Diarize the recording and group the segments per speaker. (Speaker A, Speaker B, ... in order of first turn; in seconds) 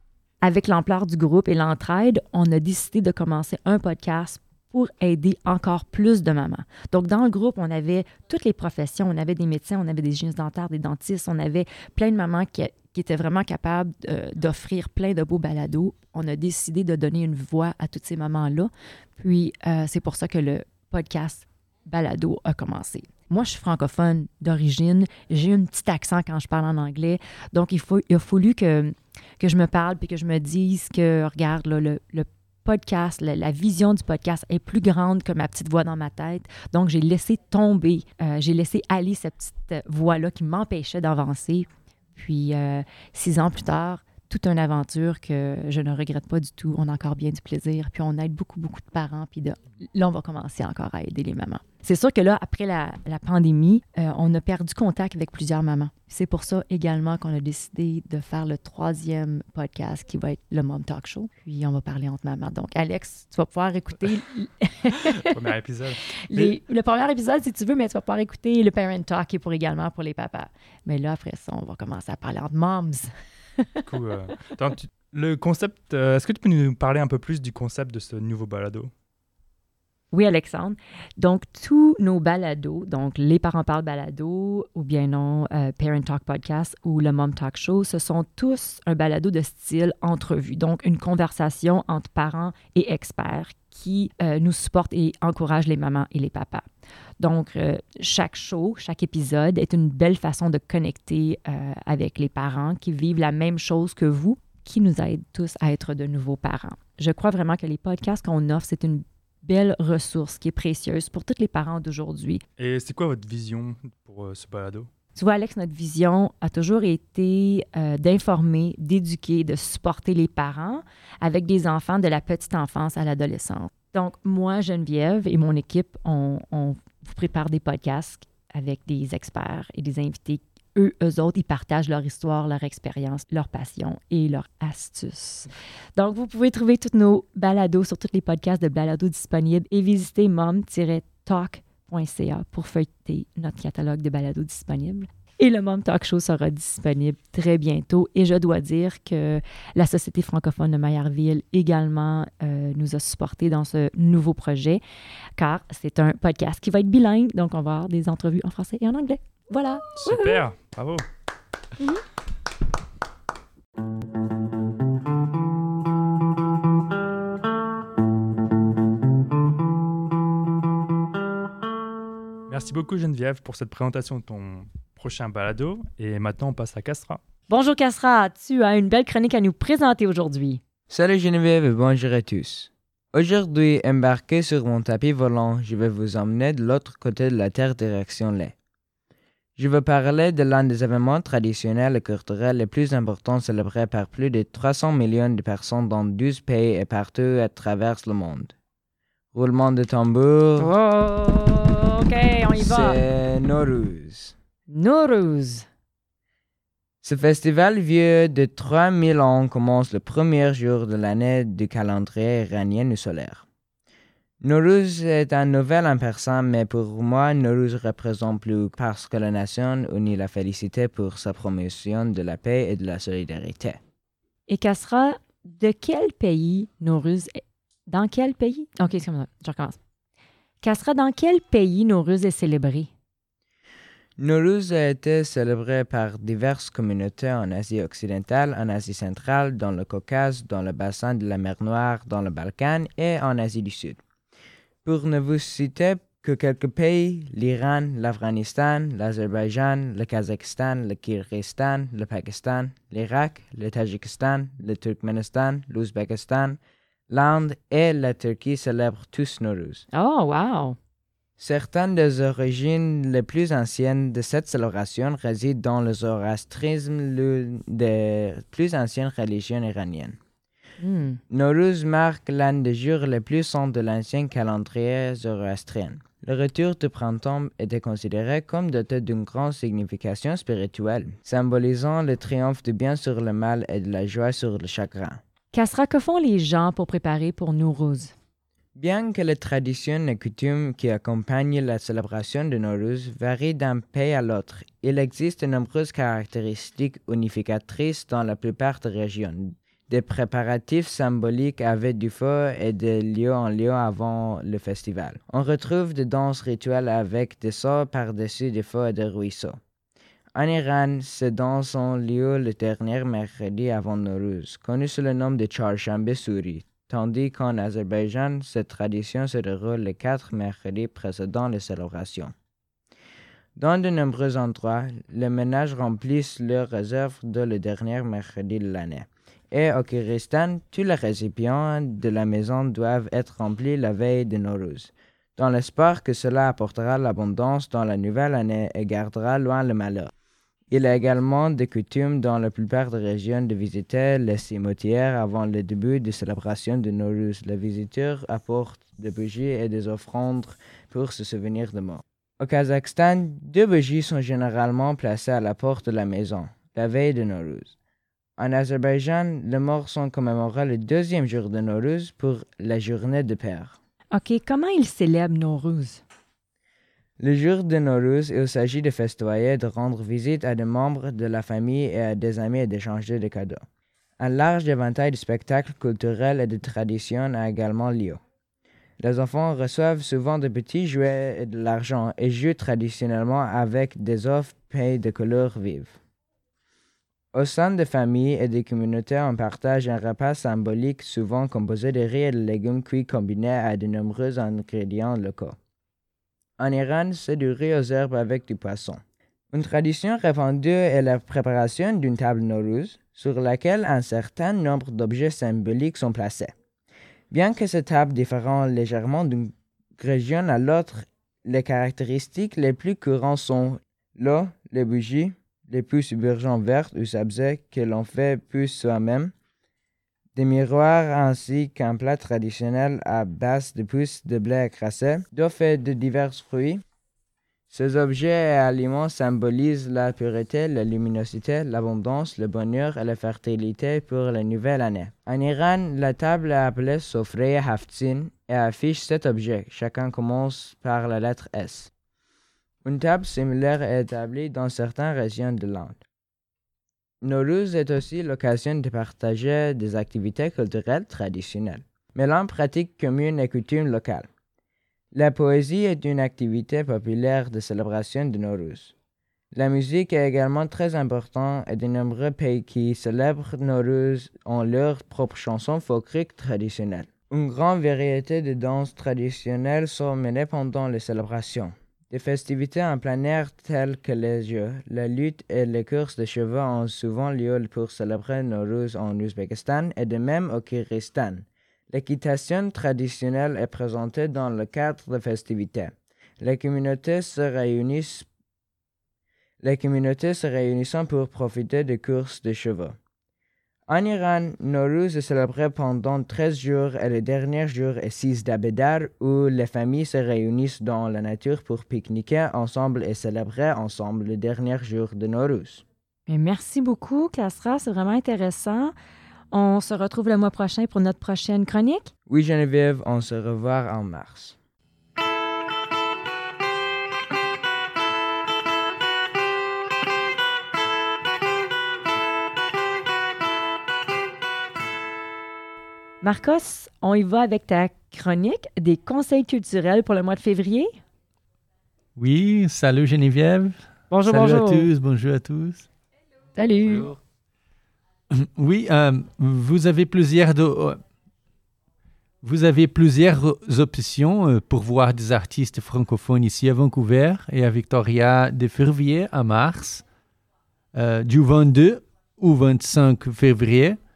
Speaker A: 0.4-65.3, 66.2-73.1, 80.1-96.6, 97.2-112.4, 115.2-154.8, 155.4-160.4, 177.5-180.6, 200.6-203.0, 204.7-205.7, 224.5-229.8, 230.6-232.9, 259.9-260.8, 270.8-271.2, 285.5-288.1, 364.1-366.0, 506.3-508.9, 509.5-512.1, 526.2-531.0, 534.1-534.9, 536.5-537.1
Speaker B: 65.2-66.5, 73.8-78.9, 112.6-114.9, 159.9-161.0, 172.5-177.2
Speaker C: 180.9-188.5, 189.6-198.5, 199.3-200.7, 202.6-204.3, 207.0-213.4, 214.4-223.8, 234.2-244.0, 244.8-256.6, 257.1-259.8, 261.4-270.2, 271.3-285.2, 288.8-309.6, 310.3-322.3, 323.6-340.1, 340.7-357.7, 358.4-363.8, 367.2-373.6, 374.2-378.2, 379.0-386.0, 387.3-395.6, 396.6-399.0, 399.5-406.5, 407.3-419.3, 420.4-426.8, 427.7-441.9, 442.8-446.0, 447.2-454.3, 455.1-458.9, 459.5-488.3, 489.6-492.9, 493.9-505.8, 512.3-514.5
Speaker D: 532.1-535.9, 538.3-541.0, 542.4-550.0, 550.9-554.0